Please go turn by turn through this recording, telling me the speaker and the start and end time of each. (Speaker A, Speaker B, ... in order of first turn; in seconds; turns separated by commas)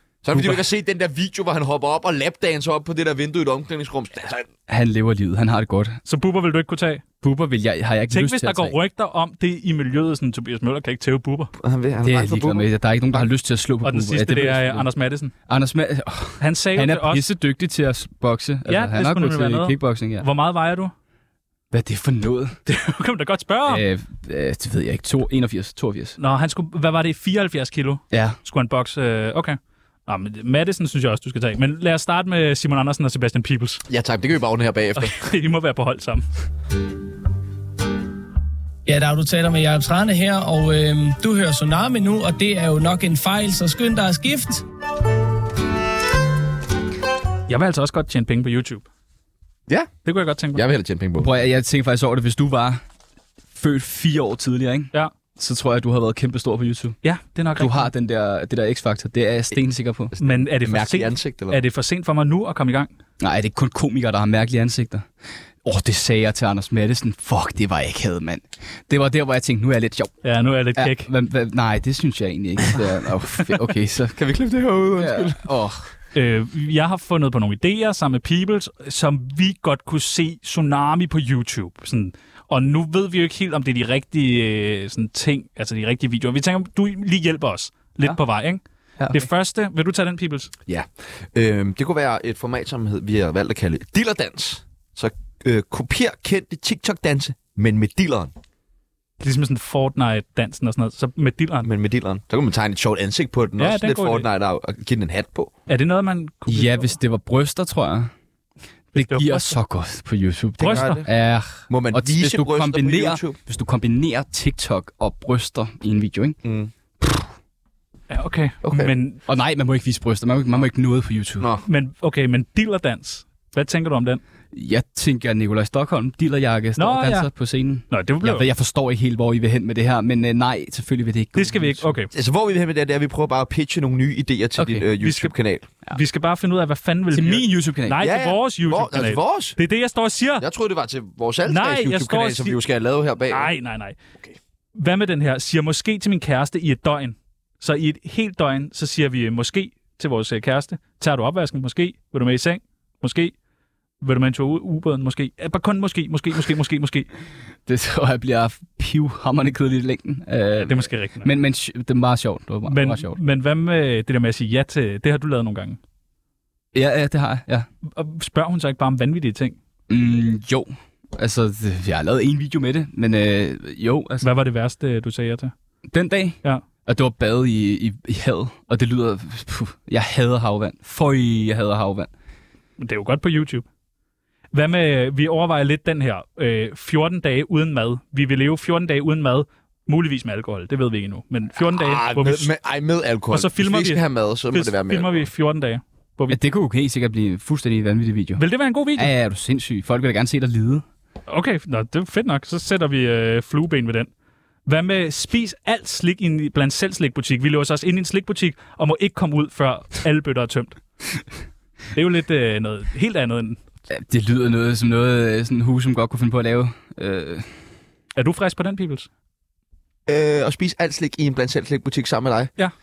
Speaker A: 0.2-4.5, Speaker B: 0.3-0.6, Speaker B: 4.7-6.0, Speaker C: 6.0-7.0, Speaker B: 7.2-8.7, Speaker C: 8.1-11.5, Speaker A: 11.6-12.7, Speaker B: 12.0-14.9, Speaker C: 13.8-15.3, Speaker B: 15.5-20.2, Speaker C: 16.4-17.2, Speaker C: 18.7-20.9, Speaker B: 21.7-22.6, Speaker C: 22.7-23.8, Speaker B: 23.6-26.2, Speaker C: 26.2-33.8, Speaker B: 28.1-28.4, Speaker A: 33.9-35.2, Speaker C: 35.0-36.2, Speaker D: 38.9-44.6, Speaker C: 47.5-48.8, Speaker C: 50.0-50.6, Speaker A: 50.5-51.3, Speaker B: 51.2-52.8, Speaker B: 53.5-57.0, Speaker C: 57.0-57.9, Speaker B: 57.5-60.1, Speaker A: 60.2-61.6, Speaker C: 60.2-62.9, Speaker B: 63.2-65.0, Speaker B: 65.6-70.1, Speaker C: 70.2-71.1, Speaker B: 70.8-74.2, Speaker A: 74.2-75.4, Speaker B: 75.0-75.8, Speaker C: 76.1-88.6, Speaker B: 89.0-89.3, Speaker C: 89.1-90.5, Speaker A: 90.7-98.3, Speaker C: 99.2-101.7, Speaker A: 101.6-105.5, Speaker C: 103.6-104.2, Speaker C: 105.7-106.9, Speaker B: 106.5-108.1, Speaker C: 108.9-109.5, Speaker B: 108.9-116.4, Speaker C: 110.6-111.0, Speaker A: 110.6-111.1, Speaker A: 111.7-113.4, Speaker A: 116.4-116.7, Speaker C: 118.1-119.2, Speaker A: 118.6-118.9, Speaker B: 119.2-121.5, Speaker C: 121.6-124.2, Speaker B: 124.5-131.9, Speaker C: 126.8-127.3, Speaker C: 127.9-128.4, Speaker C: 131.3-132.1, Speaker A: 132.1-135.7, Speaker B: 134.6-134.8, Speaker C: 135.0-135.3, Speaker C: 135.9-140.4, Speaker B: 137.1-138.0, Speaker A: 138.0-139.6, Speaker A: 140.4-143.5, Speaker C: 141.4-142.6, Speaker C: 143.3-144.0, Speaker C: 144.7-153.3, Speaker C: 154.0-157.1, Speaker B: 157.7-163.2, Speaker C: 160.6-161.3, Speaker C: 162.7-165.8, Speaker B: 166.7-167.7, Speaker C: 167.9-169.6, Speaker B: 169.9-174.3, Speaker C: 174.2-175.5, Speaker B: 175.9-182.1, Speaker C: 182.8-183.6, Speaker C: 184.5-192.5, Speaker A: 191.6-195.3, Speaker C: 193.3-196.4, Speaker B: 196.3-198.4, Speaker C: 198.4-199.1, Speaker B: 198.9-200.8, Speaker C: 201.3-204.1, Speaker C: 204.7-210.8, Speaker C: 211.9-213.6, Speaker B: 213.9-217.5, Speaker C: 218.1-219.1, Speaker A: 220.1-222.5